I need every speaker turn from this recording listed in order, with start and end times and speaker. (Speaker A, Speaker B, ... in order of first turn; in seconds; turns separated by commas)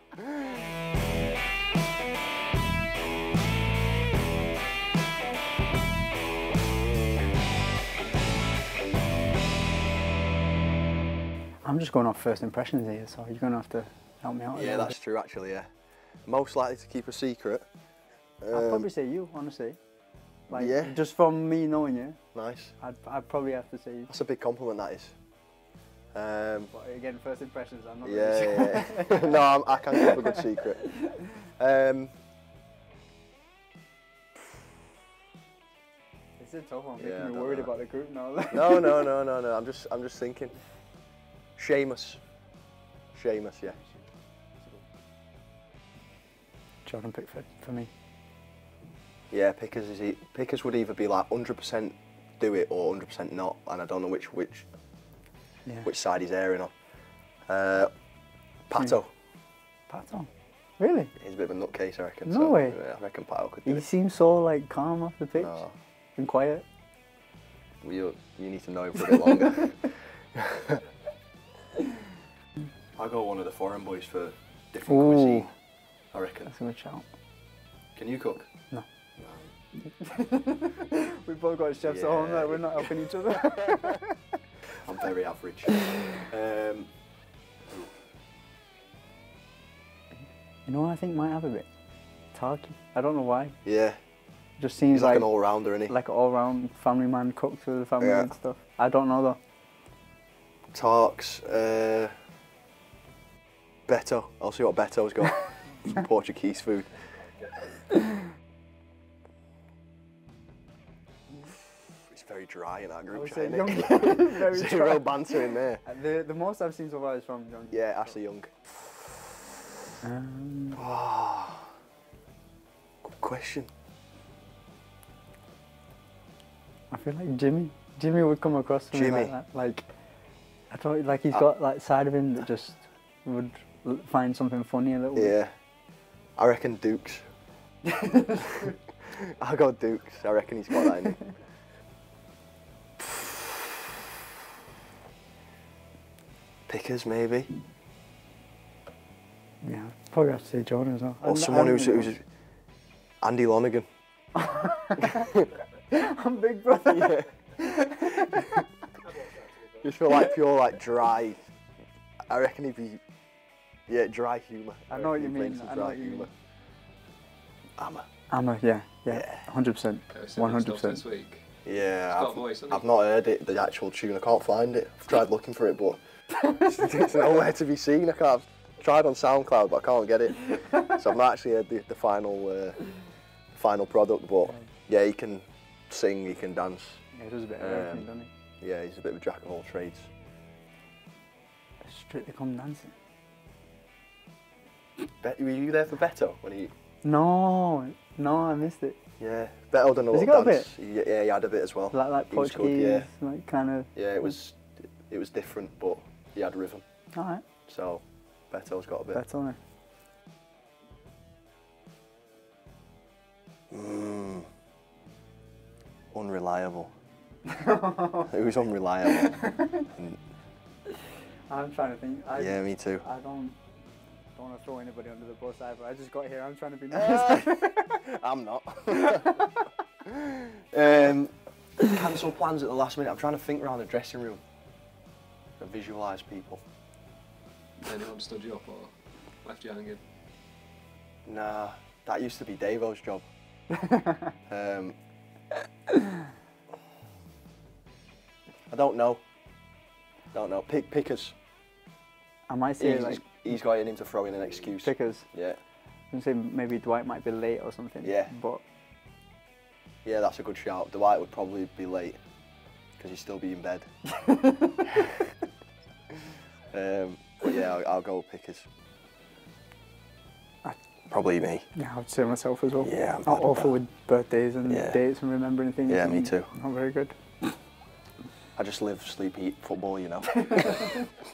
Speaker A: 0.2-0.5, Speaker B: 11.7-14.9, Speaker A: 14.5-15.7, Speaker A: 16.3-17.7, Speaker A: 18.4-18.9, Speaker B: 18.5-19.8, Speaker A: 20.5-21.0, Speaker B: 20.5-22.2, Speaker A: 22.3-22.8, Speaker B: 22.8-24.1, Speaker A: 24.1-25.2, Speaker A: 26.1-26.7, Speaker B: 26.7-29.4, Speaker A: 28.0-32.1, Speaker B: 29.9-30.9, Speaker B: 36.4-39.1, Speaker A: 37.0-37.7, Speaker A: 38.5-40.6, Speaker A: 41.6-42.2, Speaker A: 43.1-43.8, Speaker B: 46.9-47.9, Speaker A: 49.3-54.7, Speaker A: 55.8-56.7, Speaker A: 57.5-57.9, Speaker A: 58.7-59.1, Speaker B: 59.9-61.1, Speaker A: 61.2-63.9, Speaker B: 62.3-62.8, Speaker B: 63.7-65.6, Speaker A: 65.4-65.7, Speaker B: 66.2-66.7, Speaker A: 67.8-70.8, Speaker A: 73.0-75.5, Speaker B: 74.9-75.5, Speaker A: 76.1-76.5, Speaker B: 76.5-77.1, Speaker A: 78.0-78.5, Speaker A: 79.2-79.5, Speaker B: 79.9-84.2, Speaker A: 81.8-84.0, Speaker A: 84.8-86.9, Speaker B: 90.7-91.7, Speaker B: 92.3-93.6, Speaker A: 93.7-94.0, Speaker B: 94.6-95.3, Speaker A: 94.9-96.0, Speaker B: 95.9-99.4, Speaker A: 98.0-98.3, Speaker A: 100.7-102.1, Speaker A: 103.9-106.9, Speaker A: 112.1-115.8, Speaker B: 113.1-118.1, Speaker A: 117.7-118.5, Speaker B: 120.0-120.8, Speaker A: 120.8-121.7, Speaker A: 123.0-123.7, Speaker B: 126.9-129.8, Speaker A: 128.9-129.3, Speaker B: 130.7-135.3, Speaker A: 135.2-135.5, Speaker A: 136.4-137.2, Speaker B: 137.9-138.7, Speaker A: 139.1-141.2, Speaker A: 143.0-143.5, Speaker A: 146.7-147.5, Speaker B: 149.6-152.2, Speaker A: 151.2-152.2, Speaker A: 153.2-153.9, Speaker B: 154.4-158.7, Speaker A: 155.0-155.5, Speaker A: 156.9-157.3, Speaker A: 159.6-161.5, Speaker A: 162.3-163.0, Speaker A: 163.9-166.3, Speaker B: 164.9-166.3, Speaker A: 167.8-168.1, Speaker B: 168.3-171.0, Speaker A: 169.1-169.4, Speaker C: 170.1-171.5, Speaker A: 171.7-182.8, Speaker C: 172.1-172.9, Speaker A: 183.6-187.0, Speaker B: 187.1-188.3, Speaker A: 187.6-188.1, Speaker A: 188.6-190.1, Speaker B: 191.8-192.9, Speaker A: 195.2-196.7, Speaker B: 197.0-199.0, Speaker A: 199.2-203.1, Speaker B: 200.1-200.7, Speaker B: 201.9-203.9, Speaker A: 203.9-206.8, Speaker B: 207.2-207.4, Speaker A: 207.7-209.2, Speaker B: 209.1-209.6, Speaker A: 213.7-214.5, Speaker A: 216.1-216.9, Speaker B: 217.5-218.3, Speaker A: 218.3-220.2, Speaker B: 219.4-219.9, Speaker B: 221.5-223.6, Speaker A: 222.3-223.1, Speaker B: 224.3-228.0, Speaker A: 226.9-234.4, Speaker B: 229.0-229.7, Speaker A: 235.6-236.6, Speaker C: 237.8-240.0, Speaker A: 241.3-243.2, Speaker B: 243.8-244.3, Speaker A: 244.5-245.0, Speaker A: 248.7-249.2, Speaker A: 250.3-251.4, Speaker B: 252.5-253.2, Speaker A: 252.8-255.6, Speaker B: 254.8-255.3, Speaker B: 256.1-258.6, Speaker A: 258.0-258.3, Speaker A: 260.1-262.2, Speaker A: 263.0-263.9, Speaker B: 264.1-265.1, Speaker A: 266.7-268.7, Speaker A: 271.1-271.7, Speaker B: 271.8-277.2, Speaker A: 272.8-273.8, Speaker A: 274.7-275.0, Speaker A: 275.9-276.5, Speaker A: 278.6-280.9, Speaker B: 280.4-281.1